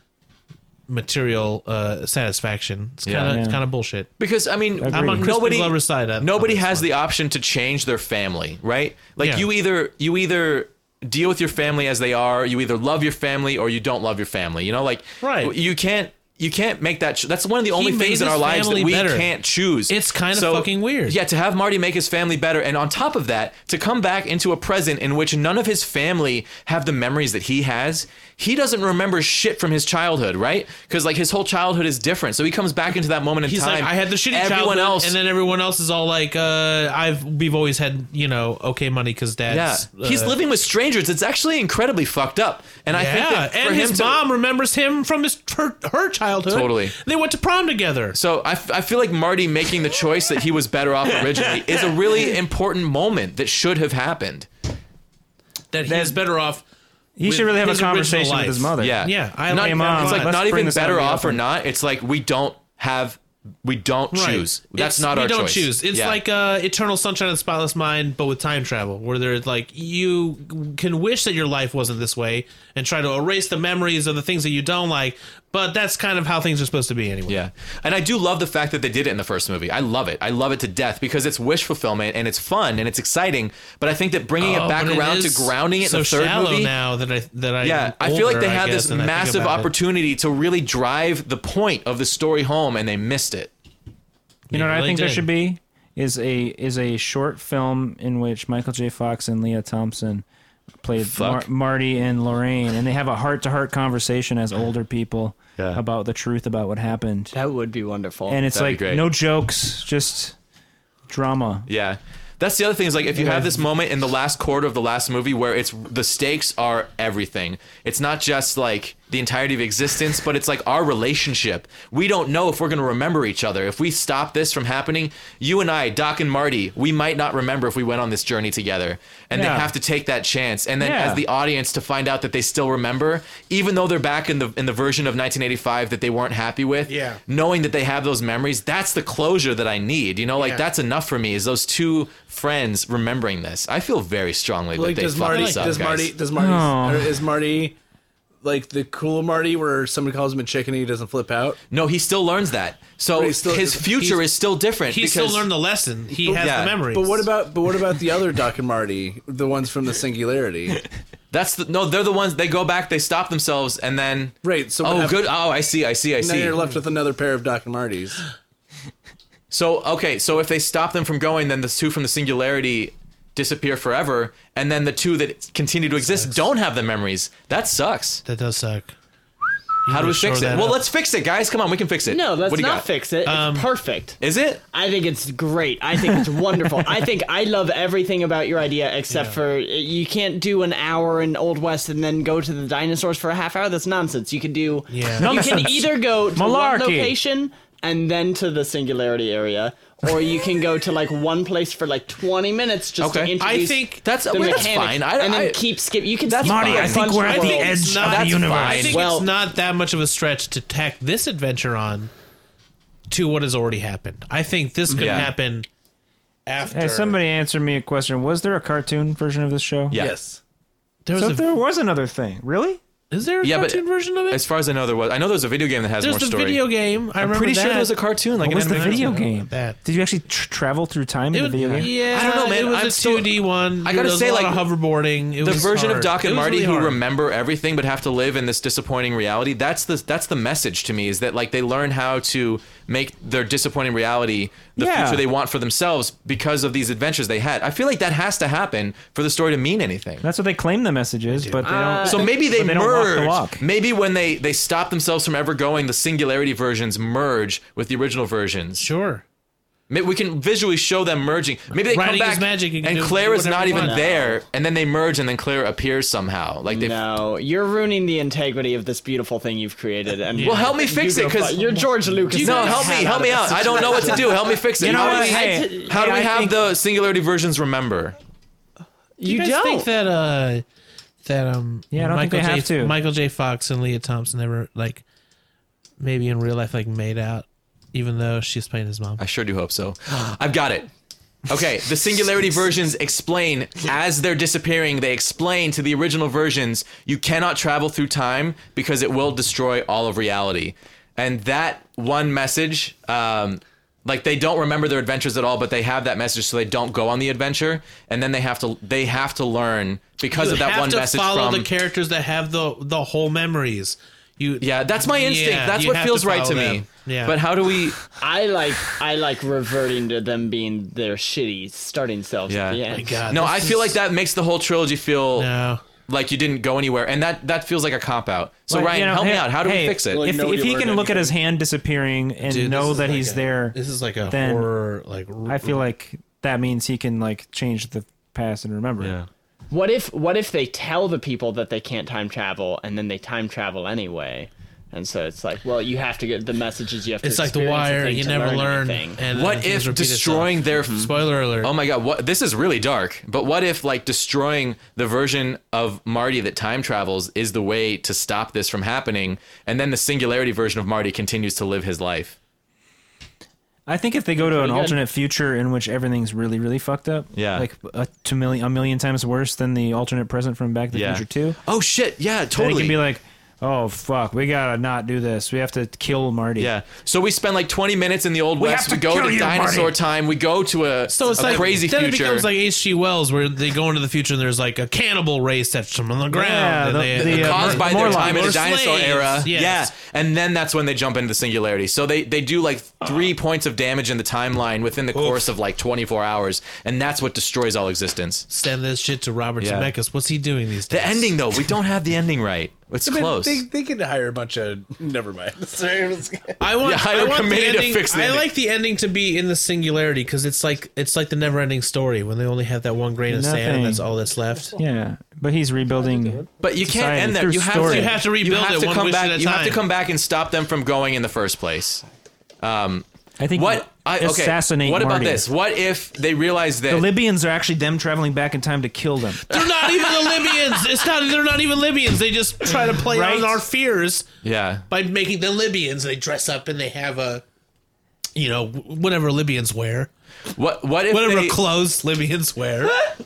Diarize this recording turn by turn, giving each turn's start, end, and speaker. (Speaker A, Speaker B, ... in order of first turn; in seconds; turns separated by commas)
Speaker A: 0.9-4.1, Speaker B: 3.0-3.4, Speaker C: 3.2-3.6, Speaker B: 4.2-35.1, Speaker C: 4.8-5.3, Speaker A: 4.9-6.9, Speaker A: 9.2-9.5, Speaker A: 15.2-15.5, Speaker A: 17.7-19.3, Speaker A: 19.9-21.2, Speaker A: 33.5-40.4, Speaker B: 39.5-44.2, Speaker A: 42.9-48.2, Speaker B: 46.5-47.0, Speaker B: 48.1-54.5, Speaker A: 55.7-56.6, Speaker C: 55.9-56.2, Speaker C: 57.2-61.4, Speaker A: 57.2-60.4, Speaker B: 58.8-66.2, Speaker A: 64.1-77.4, Speaker B: 77.3-86.7, Speaker A: 84.4-89.7, Speaker B: 87.6-93.5, Speaker A: 94.5-95.3, Speaker C: 94.5-100.2, Speaker C: 100.8-107.3, Speaker B: 101.0-101.5, Speaker D: 107.3-108.4, Speaker C: 108.3-110.4, Speaker B: 108.5-109.0, Speaker C: 111.1-111.7, Speaker B: 111.7-146.1, Speaker C: 113.2-113.7, Speaker C: 129.3-129.7, Speaker C: 130.8-131.2, Speaker A: 136.9-137.2, Speaker A: 140.4-140.7, Speaker E: 144.7-147.8, Speaker A: 145.2-145.8, Speaker C: 146.3-147.2, Speaker E: 148.4-151.6, Speaker B: 151.7-155.5, Speaker E: 153.2-154.0, Speaker A: 154.8-157.3, Speaker E: 156.1-160.8, Speaker B: 156.4-156.8, Speaker B: 161.3-166.6, Speaker E: 164.4-165.3, Speaker E: 166.2-168.2, Speaker B: 169.5-178.2, Speaker A: 176.0-176.4, Speaker A: 178.2-178.9, Speaker A: 179.9-180.8, Speaker B: 179.9-182.9, Speaker D: 182.1-184.2, Speaker A: 183.2-183.7, Speaker B: 184.2-184.6, Speaker D: 184.7-207.9, Speaker A: 189.1-189.4, Speaker A: 194.9-195.3, Speaker C: 195.2-197.2, Speaker B: 203.0-203.3, Speaker A: 203.4-204.7, Speaker B: 204.0-205.6, Speaker B: 206.2-207.4, Speaker C: 206.4-208.9, Speaker A: 207.2-212.1, Speaker B: 207.9-209.0, Speaker D: 208.8-209.3, Speaker A: 213.1-215.7, Speaker D: 214.9-215.3, Speaker B: 215.0-215.3, Speaker A: 216.5-217.2, Speaker C: 216.7-220.0, Speaker E: 219.9-220.4, Speaker A: 221.1-221.5, Speaker C: 221.2-222.8, Speaker A: 223.1-224.4, Speaker B: 223.4-226.6, Speaker A: 226.0-229.8, Speaker B: 227.2-229.2, Speaker C: 228.4-231.9, Speaker A: 231.3-237.0, Speaker B: 231.6-234.7, Speaker B: 235.4-250.2, Speaker C: 244.8-245.2, Speaker C: 250.2-253.6, Speaker A: 251.3-251.7, Speaker D: 251.7-252.3, Speaker B: 252.0-258.9, Speaker A: 258.8-259.2, Speaker B: 259.9-267.0, Speaker A: 261.9-264.0, Speaker D: 263.7-264.4, Speaker D: 266.7-275.9, Speaker A: 270.3-270.7, Speaker B: 270.4-271.7, Speaker A: 272.3-273.9, Speaker B: 272.3-278.2, Speaker C: 274.8-276.6, Speaker D: 279.2-279.9, Speaker A: 279.2-280.6, Speaker A: 281.2-285.0, Speaker C: 281.9-283.0, Speaker A: 286.0-289.2, Speaker B: 289.2-290.9, Speaker B: 291.5-311.7, Speaker A: 310.3-317.4, Speaker B: 314.6-318.0, Speaker D: 318.2-323.3, Speaker B: 322.5-325.5, Speaker A: 322.9-324.0, Speaker A: 325.4-325.8, Speaker B: 326.1-330.2, Speaker C: 328.7-334.7, Speaker E: 330.1-331.4, Speaker A: 332.4-335.8, Speaker C: 335.5-339.1, Speaker B: 339.0-339.3, Speaker D: 339.7-349.2, Speaker A: 347.2-351.7, Speaker B: 349.3-362.4, Speaker C: 363.9-371.6, Speaker D: 364.4-365.0, Speaker B: 367.3-367.7, Speaker B: 370.9-373.0, Speaker C: 372.5-376.7, Speaker B: 376.6-382.5, Speaker C: 378.6-380.0, Speaker A: 381.1-389.9, Speaker C: 381.4-381.7, Speaker C: 386.3-388.6, Speaker B: 387.2-398.5, Speaker A: 398.5-401.4, Speaker B: 399.6-399.9, Speaker B: 400.9-403.7, Speaker E: 403.0-406.6, Speaker A: 406.6-414.8, Speaker B: 406.8-408.4, Speaker C: 413.3-414.1, Speaker C: 414.8-418.2, Speaker B: 416.6-422.0, Speaker A: 417.7-419.8, Speaker B: 422.6-427.1, Speaker C: 423.4-425.5, Speaker C: 426.9-429.6, Speaker A: 429.5-434.3, Speaker C: 432.7-433.6, Speaker B: 434.4-434.8, Speaker A: 434.9-437.4, Speaker A: 438.4-440.1, Speaker B: 440.6-441.6, Speaker A: 441.1-443.1